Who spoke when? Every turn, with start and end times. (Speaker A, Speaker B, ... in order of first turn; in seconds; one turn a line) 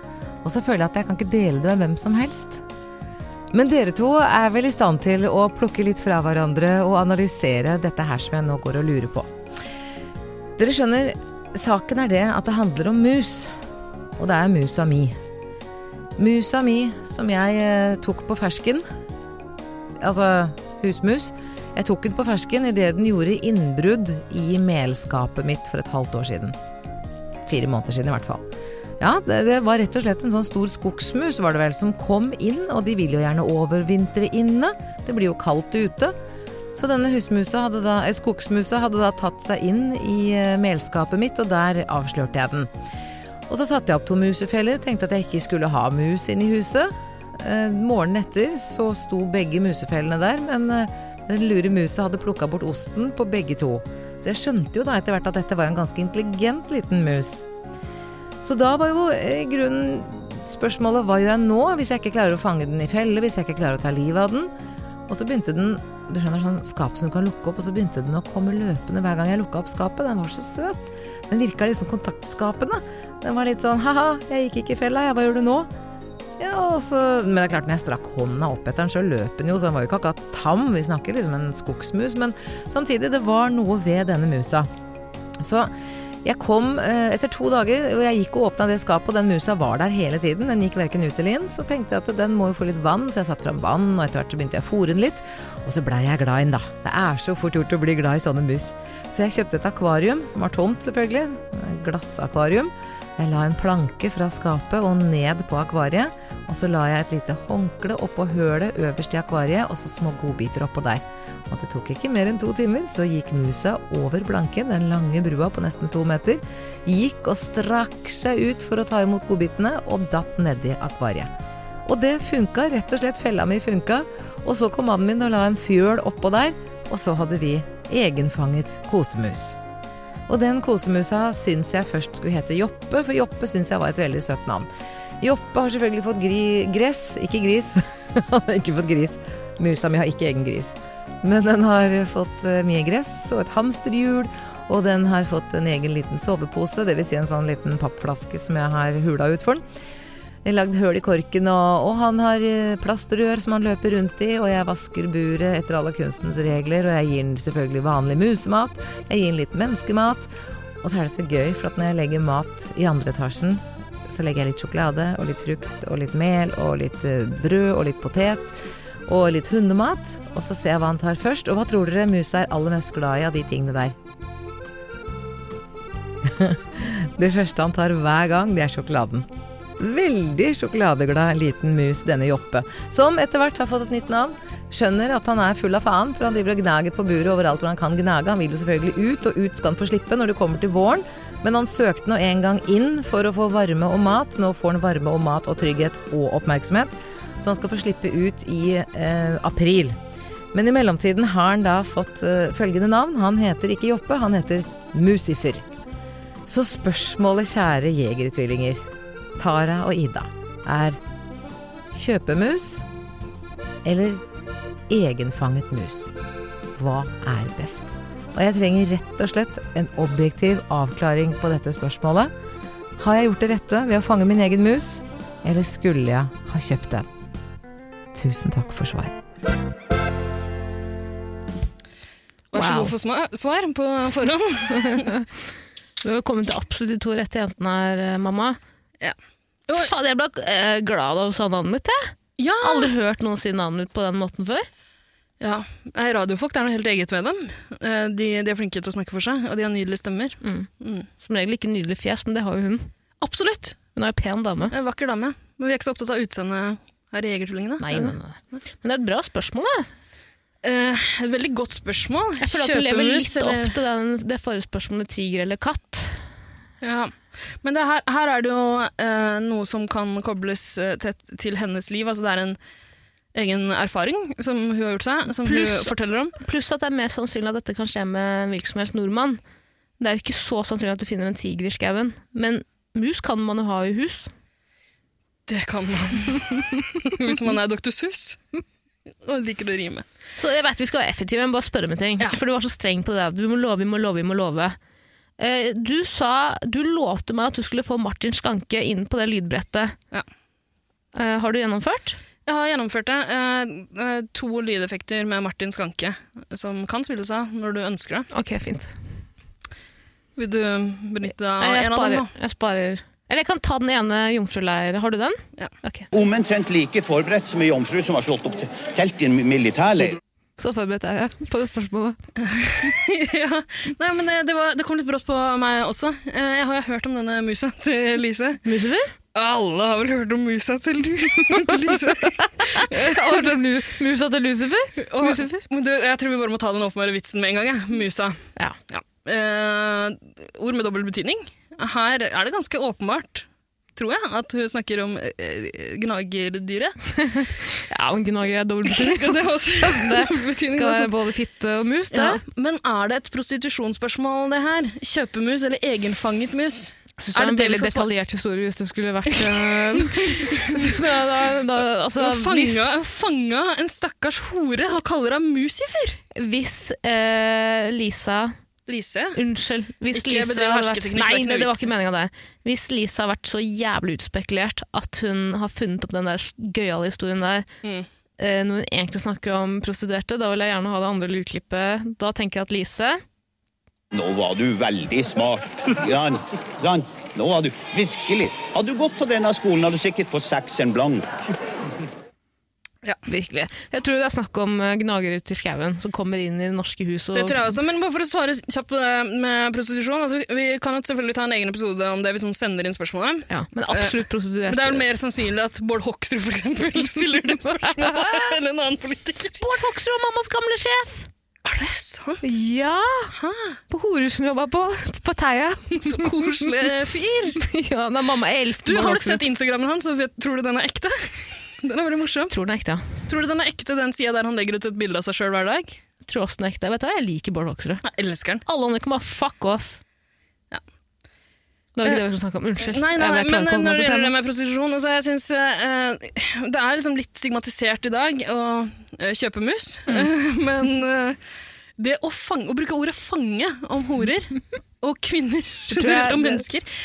Speaker A: 0.4-2.6
Speaker A: 3.5-9.3
Speaker A: 10.6-13.5
Speaker A: 14.2-15.2
Speaker A: 16.2-18.9
Speaker A: 20.0-26.6
Speaker A: 27.4-28.4
Speaker A: 29.0-36.1
Speaker A: 36.7-42.7
Speaker A: 43.5-57.5
Speaker A: 58.4-64.5
Speaker A: 65.1-75.7
Speaker A: 76.4-84.7
Speaker A: 85.4-85.7
Speaker A: 86.2-121.3
Speaker A: 121.9-129.6
Speaker A: 130.3-134.7
Speaker A: 135.2-149.6
Speaker A: 150.4-168.6
Speaker A: 169.1-173.9
Speaker A: 176.2-200.0
Speaker A: 200.5-205.6
Speaker A: 206.4-208.8
Speaker A: 209.4-211.0
Speaker A: 211.9-212.8
Speaker A: 213.8-214.2
Speaker A: 214.9-216.1
Speaker A: 216.8-222.3
Speaker A: 223.0-227.1
Speaker A: 228.1-229.2
Speaker B: 232.5-235.2
Speaker C: 232.5-232.9
Speaker C: 234.9-235.2
Speaker C: 236.0-238.6
Speaker C: 239.7-244.7
Speaker B: 242.4-242.9
Speaker B: 245.4-251.1
Speaker C: 250.4-252.9
Speaker B: 253.2-253.8
Speaker C: 253.9-254.7
Speaker B: 254.7-258.1
Speaker C: 257.8-259.9
Speaker B: 260.6-263.8
Speaker C: 262.4-266.2
Speaker B: 266.8-272.6
Speaker B: 273.4-276.4
Speaker C: 275.4-279.4
Speaker C: 280.0-284.3
Speaker B: 285.5-288.4
Speaker B: 289.2-290.1
Speaker C: 290.4-294.8
Speaker C: 295.4-299.9
Speaker C: 301.1-302.2
Speaker B: 302.4-308.3
Speaker C: 308.3-308.9
Speaker B: 310.4-312.3
Speaker C: 311.6-316.1
Speaker D: 316.1-320.2
Speaker C: 320.6-322.2
Speaker B: 322.4-328.6
Speaker C: 328.6-329.1
Speaker B: 329.4-333.5
Speaker C: 331.5-335.6
Speaker B: 335.0-346.9
Speaker C: 347.2-352.4
Speaker B: 348.9-351.1
Speaker B: 352.1-358.1
Speaker C: 357.2-362.9
Speaker B: 359.3-361.0
Speaker B: 362.2-366.2
Speaker C: 366.4-368.6
Speaker B: 368.9-369.4
Speaker C: 369.4-377.6
Speaker B: 370.1-371.9
Speaker C: 378.4-383.2
Speaker D: 384.1-391.4
Speaker C: 393.3-397.7
Speaker B: 397.4-409.6
Speaker C: 403.5-405.1
Speaker C: 407.7-408.5
Speaker C: 409.6-411.3
Speaker B: 411.6-412.4
Speaker C: 412.4-413.3
Speaker B: 413.3-413.8
Speaker C: 413.9-416.6
Speaker B: 415.9-417.6
Speaker C: 417.6-419.4
Speaker B: 418.9-422.5
Speaker C: 422.5-423.1
Speaker B: 423.3-426.0
Speaker C: 426.3-428.0
Speaker B: 428.0-428.6
Speaker C: 428.6-430.0
Speaker C: 431.9-434.3
Speaker B: 432.8-441.4
Speaker B: 442.0-446.9
Speaker C: 445.9-446.6